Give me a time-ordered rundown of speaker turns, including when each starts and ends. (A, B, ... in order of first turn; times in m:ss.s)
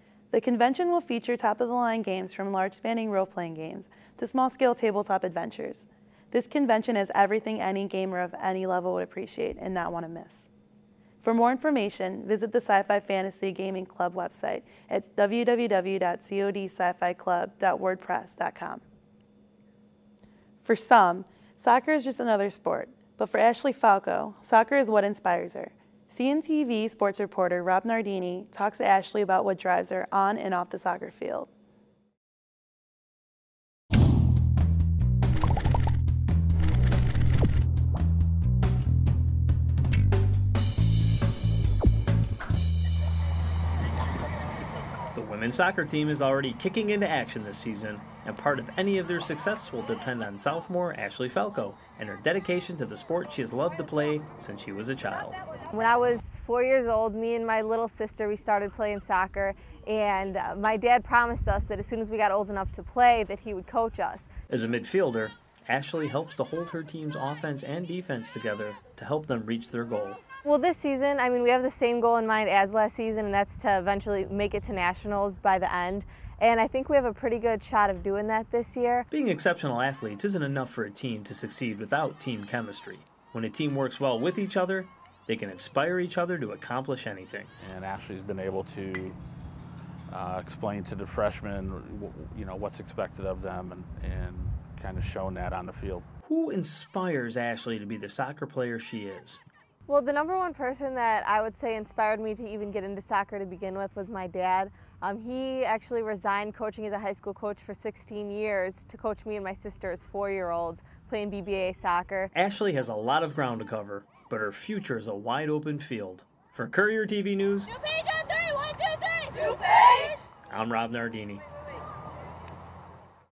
0:00.3-0:10.5 A
0:11.2-0:18.8 A
0:20.6-0:31.5 A
0:45.2-0:55.4 B
0:55.7-1:04.3 C
1:04.5-1:10.2 B
1:10.4-1:19.0 C
1:19.1-1:27.5 B
1:27.6-1:29.2 D
1:30.1-1:36.1 D
1:36.2-1:39.4 B
1:39.9-1:52.3 C
1:52.3-1:57.7 B
2:00.5-2:01.4 B